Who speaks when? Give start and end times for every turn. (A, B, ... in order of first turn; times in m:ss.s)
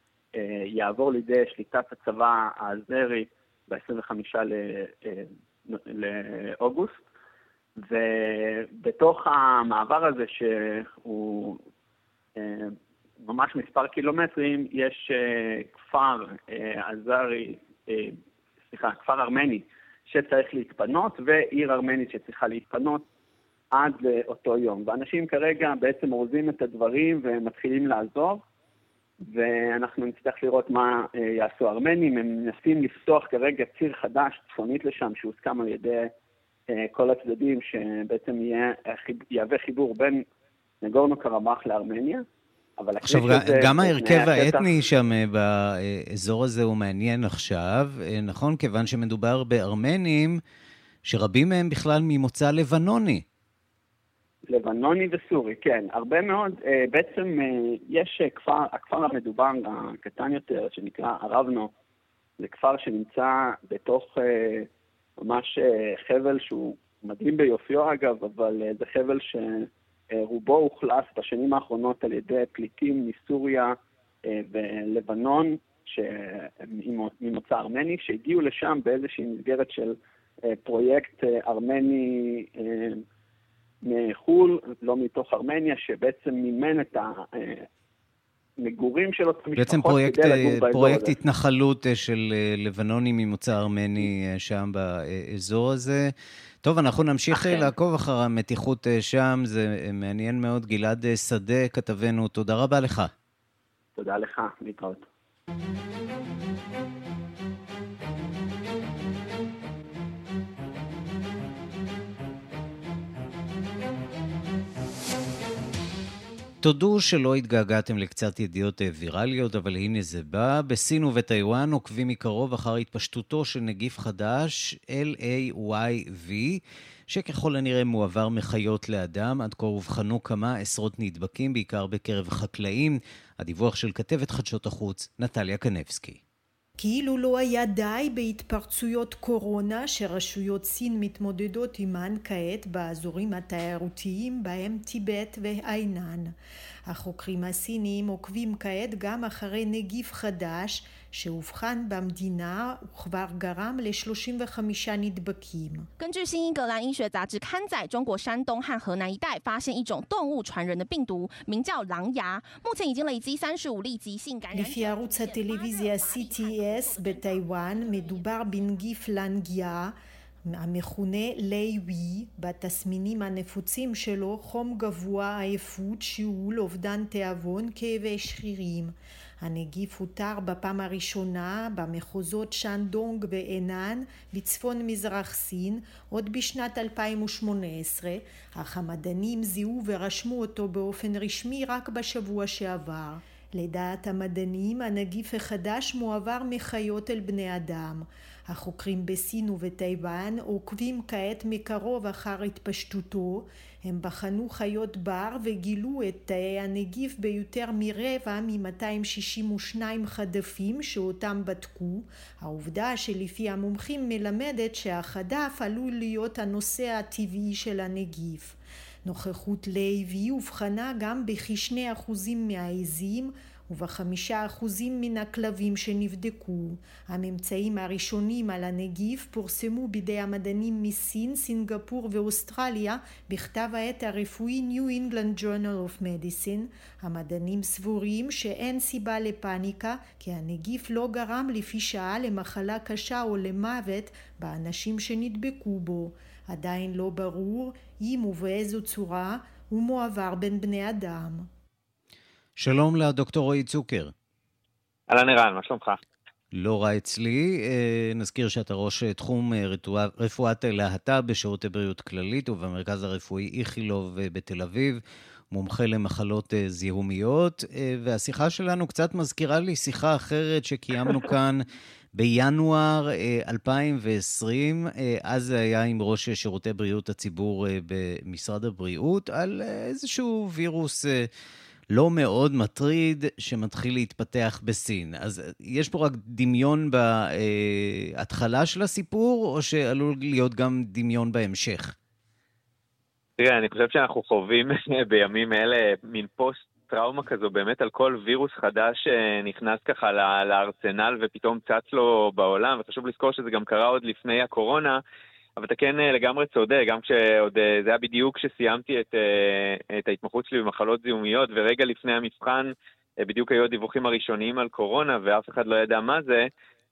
0:00.4-0:07.0 A
0:07.8-0:11.6 A
0:12.4-0:18.2 A
0:18.7-0:23.0 A
0:23.8-0:28.4 A
0:29.2-0:36.1 A
0:36.7-0:40.2 A
0:40.8-0:42.2 A
0:42.8-0:44.8 A
0:43.0-0:50.4 B
0:51.0-0:53.2 B
0:54.5-1:01.7 A
1:02.4-1:04.7 A
1:05.2-1:13.7 A
1:14.3-1:20.0 A
1:20.5-1:23.0 A
1:23.8-1:27.6 A
1:28.6-1:31.2 A
1:29.6-1:36.1 B
1:36.6-1:43.1 B
1:37.4-1:37.7 A
1:44.0-1:45.0 A
1:56.6-2:16.2 B
2:16.8-2:26.3 C
2:26.9-2:35.9 C
2:36.0-2:48.8 D
2:44.5-2:50.0 C
2:50.5-4:11.5 C
4:12.6-4:14.1 B
4:15.1-4:16.0 E
4:16.5-4:25.0 B
4:25.5-4:31.6 B
4:32.2-4:41.3 B
4:41.9-4:51.9 B
4:53.4-5:05.0 E
5:05.6-5:16.4 E